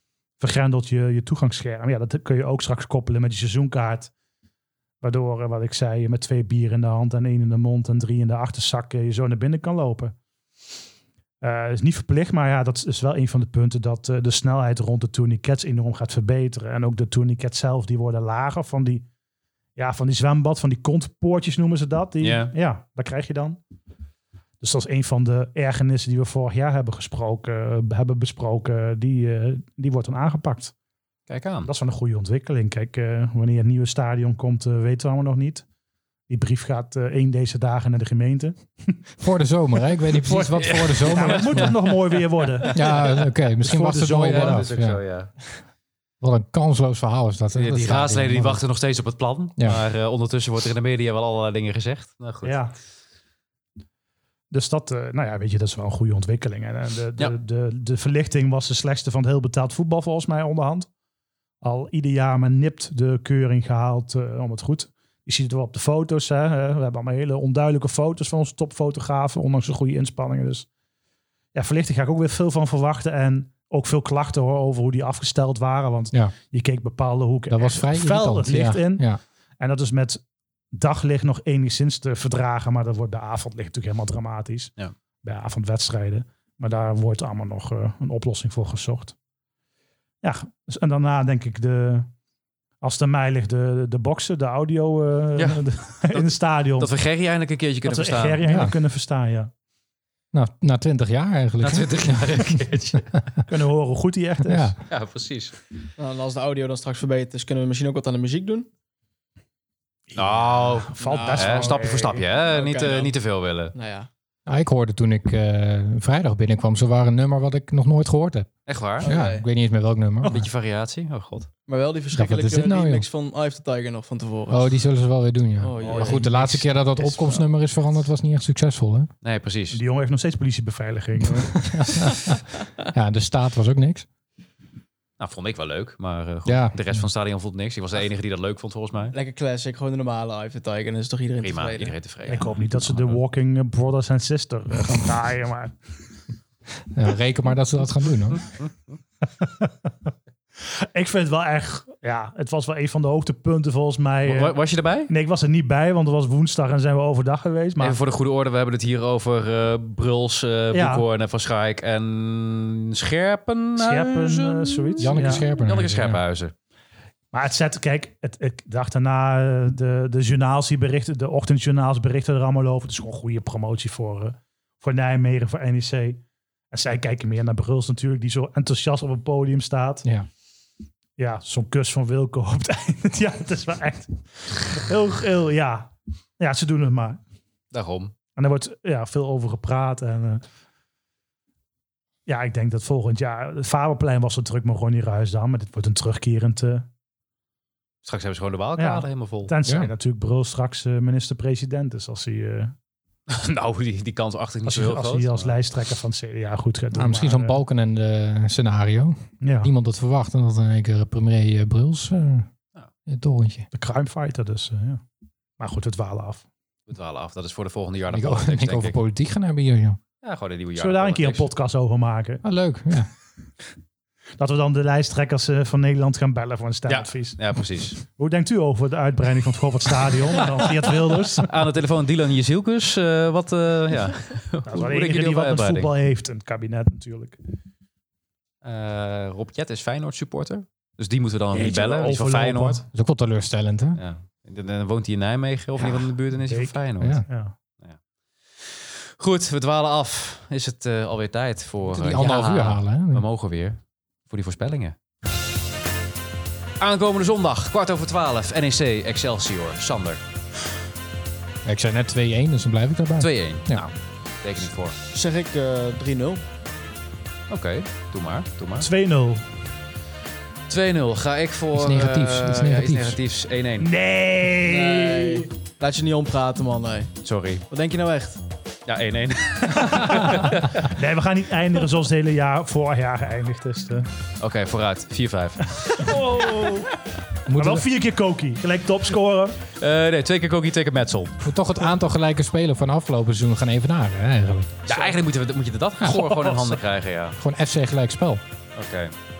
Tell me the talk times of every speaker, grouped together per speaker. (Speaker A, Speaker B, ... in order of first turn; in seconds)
Speaker A: 0.4-4.1, 5.0-10.1, 11.4-19.1, 19.8-23.6, 24.6-30.7, 31.6-35.6, 36.3-39.0, 41.0-43.0, 43.6-44.6, 52.4-52.7, 54.5-60.9, 61.6-70.7, 71.5-89.1, 90.2-92.1, 92.8-96.9, 97.8-99.5, 103.5-104.7, 110.1-112.2, 125.8-126.4, 129.7-131.6, 142.3-145.8, 149.4-149.7, 150.6-154.6, 155.1-158.0, 160.7-161.0, 163.8-165.4, 167.3-180.1, 181.2-187.2, 188.3-190.4, 192.2-196.9, 198.8-202.7, 204.7-207.6, 209.4-209.7, 213.7-215.0, 215.6-216.4, 220.8-222.4, 224.4-231.5, 234.7-237.4, 241.5-242.8, 245.8-246.8, 247.3-247.5, 268.8-269.4, 273.8-275.5, 279.8-284.1, 285.9-286.9, 287.5-289.6, 296.1-296.8
Speaker B: 22.2-22.5, 31.3-31.7, 40.5-43.1, 44.2-45.3, 47.5-52.6, 95.4-98.4, 101.6-103.1, 104.9-105.6, 110.1-113.7, 118.7-119.1, 120.2-121.5, 129.2-129.8, 135.2-139.1, 141.4-143.2, 148.4-148.9, 154.2-155.1, 157.8-166.5, 187.7-188.1, 198.0-199.5, 203.3-205.6, 216.9-218.9, 220.2-221.5, 226.9-228.0, 231.4-235.9, 238.6-242.8, 244.0-247.2, 248.6-255.0, 256.8-260.2, 263.2-264.9, 267.5-268.9, 270.7-273.9, 277.2-277.6, 278.9-280.9, 284.4-286.2, 289.8-291.4, 294.9-297.4, 298.7-299.1
Speaker C: 39.2-41.8, 42.7-45.0, 46.2-48.6, 77.5-79.2, 98.4-98.7, 100.3-103.2, 104.4-104.8, 114.5-120.5, 122.1-123.1, 124.5-129.1, 131.3-134.1, 136.4-137.0, 146.9-148.4, 165.0-166.2, 199.7-199.9, 206.9-212.5, 213.1-213.7, 218.1-220.0, 222.4-223.1, 242.9-244.0, 251.8-253.2, 261.6-263.9, 271.7-273.2, 287.5-287.8, 291.4-294.8, 297.4-298.4
Speaker D: 106.0-108.7, 112.3-113.1, 113.7-114.1, 119.0-119.5, 121.7-124.7, 125.6-127.4, 139.1-142.4, 265.1-266.4, 274.6-277.1, 277.7-278.4